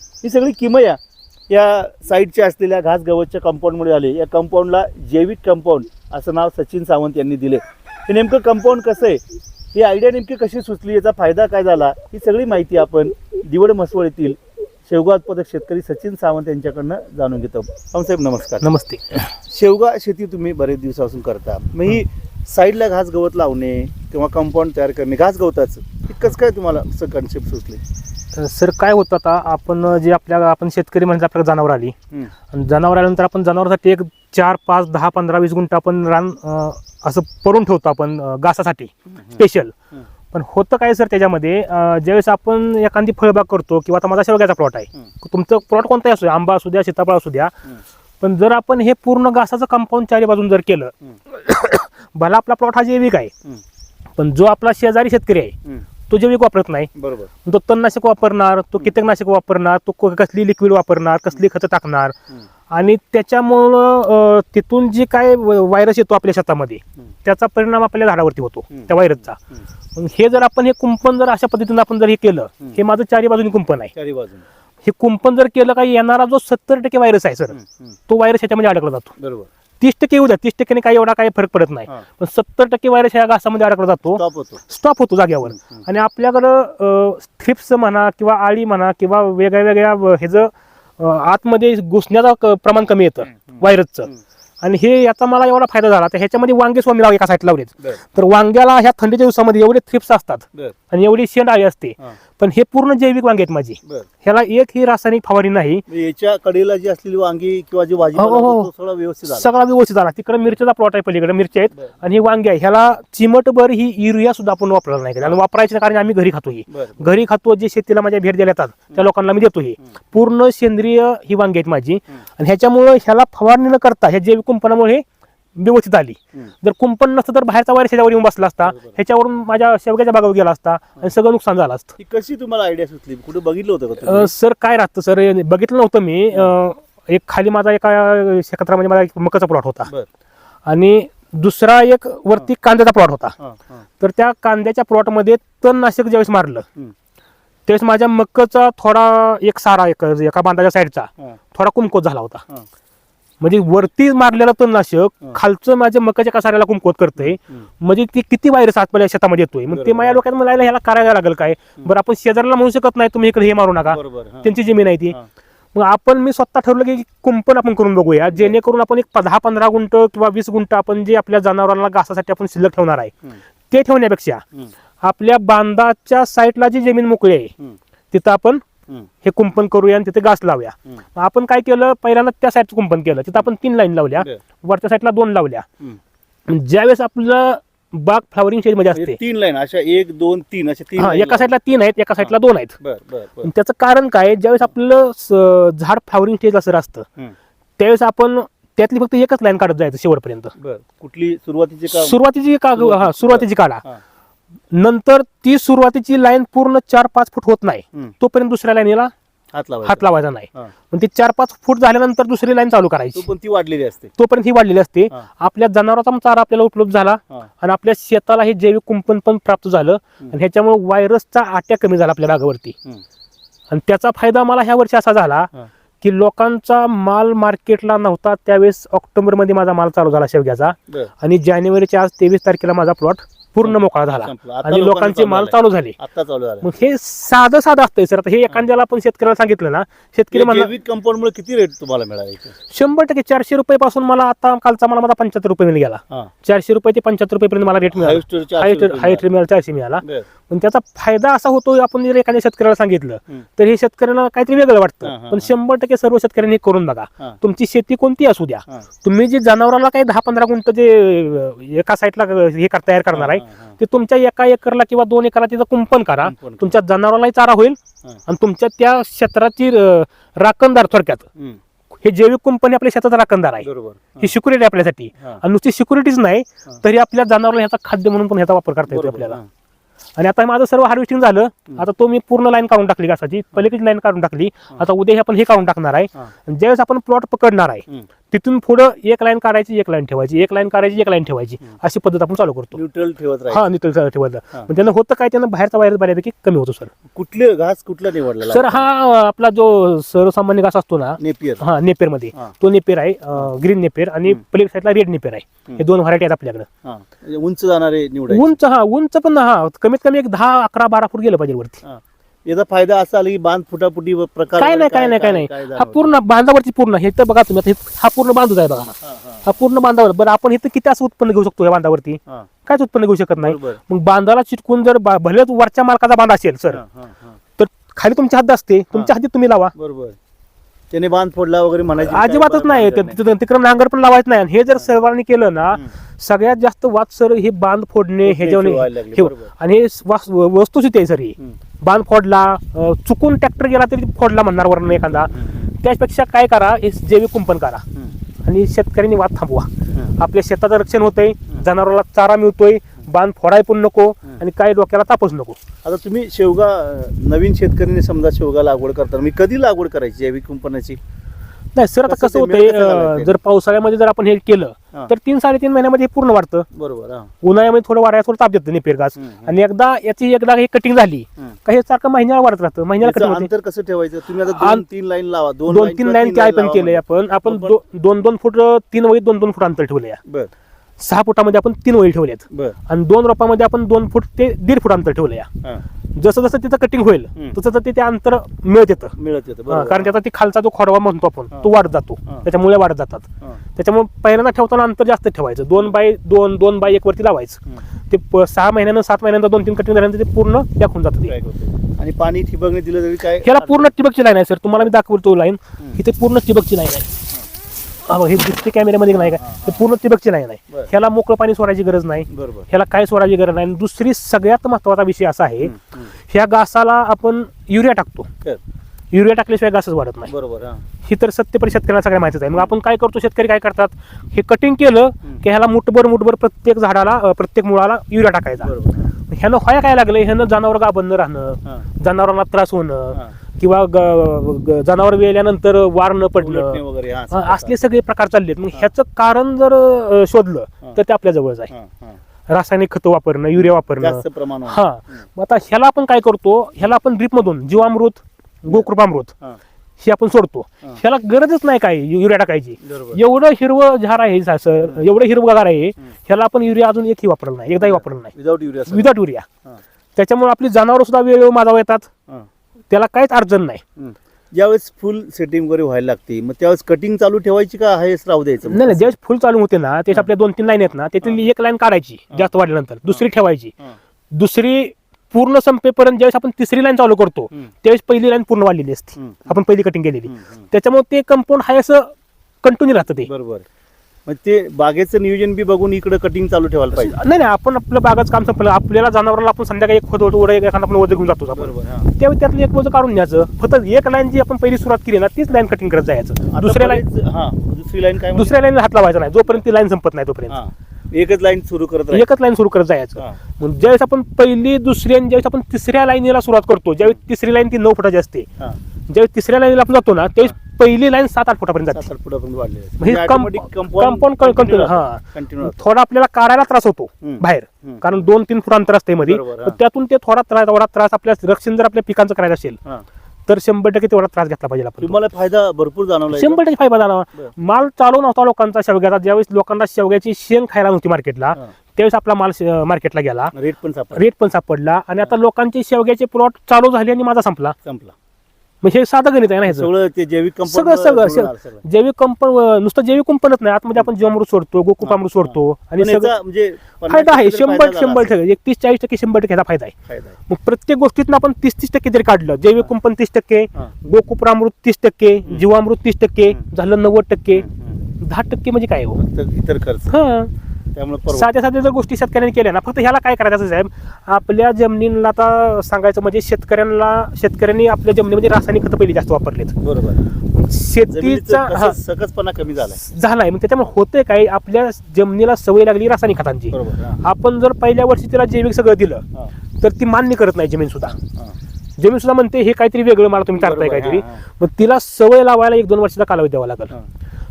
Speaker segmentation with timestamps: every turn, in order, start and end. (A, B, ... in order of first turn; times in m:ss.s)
0:00.2-0:09.2 A
0:09.7-0:27.8 A
0:18.6-0:19.0 B
0:28.4-0:32.0 B
0:32.5-0:39.7 B
0:39.1-0:39.4 A
0:40.3-0:47.5 B
0:48.2-0:53.3 B
0:54.2-0:55.6 B
0:56.1-0:56.9 B
0:57.0-0:57.3 A
0:57.4-1:02.2 B
1:02.7-1:09.4 B
1:10.0-1:13.9 B
1:14.0-1:14.4 A
1:14.8-1:17.6 B
1:17.5-1:17.9 A
1:18.1-1:19.1 B
1:19.2-1:19.5 A
1:19.8-1:34.1 B
1:24.1-1:24.6 A
1:25.5-1:25.8 A
1:33.5-1:34.2 A
1:34.6-1:45.8 B
1:45.9-1:49.5 A
1:48.2-1:48.7 B
1:49.3-2:05.0 B
1:56.7-1:57.1 A
2:05.6-2:11.9 B
2:08.6-2:09.0 A
2:12.0-2:14.3 A
2:14.0-2:19.9 B
2:20.7-2:23.4 B
2:23.4-2:23.8 A
2:24.0-2:26.6 B
2:27.7-2:32.4 B
2:33.4-2:45.2 B
2:37.2-2:37.6 A
2:39.7-2:40.2 A
2:43.9-2:44.5 A
2:45.7-2:53.1 B
2:53.7-2:54.4 B
2:55.0-2:57.5 B
2:58.1-2:58.6 B
2:59.2-3:05.6 B
3:06.5-3:09.2 B
3:09.0-3:11.5 A
3:11.0-3:12.8 B
3:12.2-3:13.5 A
3:13.4-3:17.0 B
3:17.8-3:20.5 B
3:20.6-3:22.2 A
3:21.9-3:23.8 B
3:22.8-3:24.0 A
3:24.7-3:29.1 B
3:29.5-3:30.0 A
3:29.8-3:33.3 B
3:33.2-3:34.1 A
3:34.2-3:42.8 B
3:43.7-3:45.5 B
3:46.0-3:56.0 B
3:53.6-3:56.7 A
3:56.6-4:00.7 B
4:00.3-4:02.6 A
4:02.7-4:31.2 B
4:07.9-4:09.3 A
4:10.0-4:10.3 A
4:15.0-4:15.5 A
4:23.1-4:23.8 A
4:26.2-4:26.7 A
4:32.0-4:33.7 B
4:33.6-4:34.3 A
4:34.2-4:39.4 B
4:38.9-4:39.5 A
4:40.2-4:52.8 B
4:52.7-4:53.7 A
4:53.5-4:56.9 B
4:57.1-4:58.9 A
4:58.4-5:06.7 B
5:01.2-5:01.6 A
5:06.8-5:08.6 A
5:08.3-5:11.8 B
5:11.8-5:16.2 A
5:14.6-5:26.8 B
5:19.0-5:19.5 A
5:23.4-5:23.8 A
5:26.7-5:27.4 A
5:27.6-5:29.7 B
5:29.8-5:30.2 A
5:30.9-5:33.2 A
5:32.0-5:47.8 B
5:38.2-5:39.5 A
5:45.4-5:45.7 A
5:48.4-5:55.6 B
5:55.8-6:01.0 A
6:01.8-6:06.7 B
6:02.1-6:03.4 A
6:06.7-6:07.3 A
6:07.4-6:13.5 B
6:09.2-6:09.6 A
6:13.0-6:17.8 A
6:14.4-6:14.8 B
6:15.7-6:20.2 B
6:21.0-6:25.5 B
6:22.5-6:22.8 A
6:26.2-6:29.1 B
6:29.1-6:30.2 A
6:29.7-6:41.4 B
6:41.3-6:44.0 A
6:43.4-6:47.1 B
6:48.1-6:55.7 B
6:49.1-6:49.8 A
6:52.3-6:52.7 A
6:55.6-6:56.1 A
6:56.3-6:58.3 B
6:59.1-7:00.3 B
7:00.3-7:00.8 A
7:01.0-7:08.7 B
7:08.6-7:09.1 A
7:09.3-7:21.7 B
7:16.4-7:17.8 A
7:21.7-7:22.2 A
7:22.5-7:29.3 B
7:23.6-7:24.8 A
7:30.0-7:38.3 B
7:32.8-7:33.2 A
7:37.8-7:39.1 A
7:38.9-7:39.5 B
7:40.2-7:42.1 B
7:42.9-7:43.8 B
7:44.0-7:49.1 A
7:48.7-7:53.7 B
7:54.3-8:02.1 B
7:59.2-7:59.6 A
8:00.3-8:00.7 A
8:02.6-8:03.3 B
8:03.3-8:03.6 A
8:04.3-8:07.2 A
8:06.9-8:17.0 B
8:11.6-8:12.1 A
8:16.5-8:18.6 A
8:18.3-8:20.6 B
8:20.5-8:22.3 A
8:22.1-8:28.5 B
8:29.1-8:32.1 B
8:31.9-8:35.8 A
8:33.0-8:42.8 B
8:37.2-8:38.3 A
8:39.2-8:39.8 A
8:43.5-8:45.2 B
8:45.0-8:46.6 A
8:46.3-8:53.5 B
8:53.6-8:54.2 A
8:54.1-8:57.8 B
8:57.8-8:58.1 A
8:58.8-8:59.9 B
8:59.7-9:01.8 A
9:00.7-9:06.3 B
9:05.0-9:08.4 A
9:07.1-9:09.9 B
9:10.1-9:10.4 A
9:10.5-9:17.7 B
9:17.5-9:18.0 A
9:18.2-9:19.2 B
9:19.2-9:20.2 A
9:20.1-9:20.5 B
9:21.0-9:21.5 A
9:21.3-9:29.8 B
9:29.8-9:30.3 A
9:30.5-9:32.0 B
9:31.1-9:33.0 A
9:33.0-9:39.2 B
9:36.7-9:37.2 A
9:39.8-9:41.2 B
9:41.1-9:41.6 A
9:42.0-9:46.9 B
9:43.5-9:44.4 A